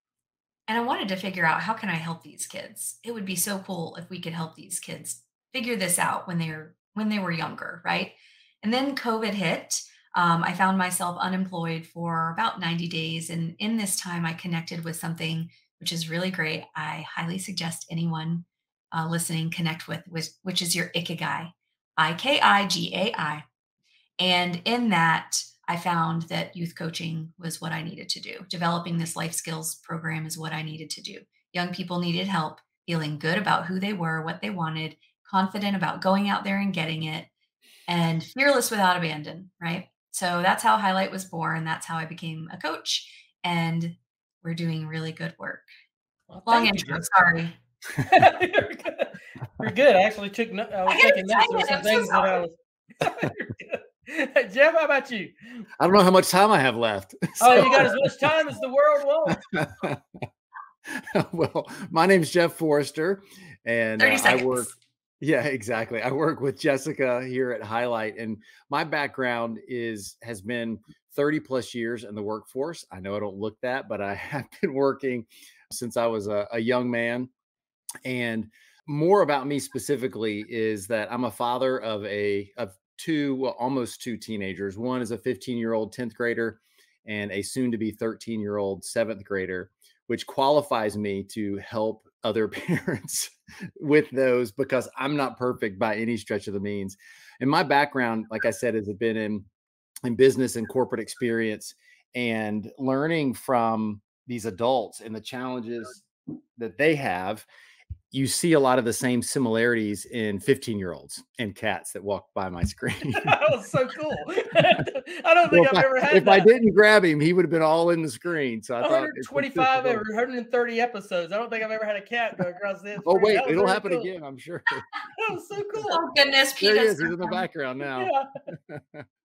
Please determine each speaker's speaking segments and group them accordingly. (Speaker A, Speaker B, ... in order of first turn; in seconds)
Speaker A: 0.7-23.4, 24.2-37.3, 37.9-45.7, 46.5-47.6, 50.9-52.4, 64.0-64.7, 125.8-127.4
Speaker B: 46.3-47.1, 48.0-55.6, 57.4-59.4, 113.1-116.5, 118.8-124.1, 125.2-126.0, 127.8-128.3
Speaker C: 55.8-58.3, 59.3-60.0, 60.9-77.3, 78.0-99.5, 100.0-106.0, 106.6-107.5, 108.1-113.4, 115.5-120.0, 123.0-124.9, 126.6-129.0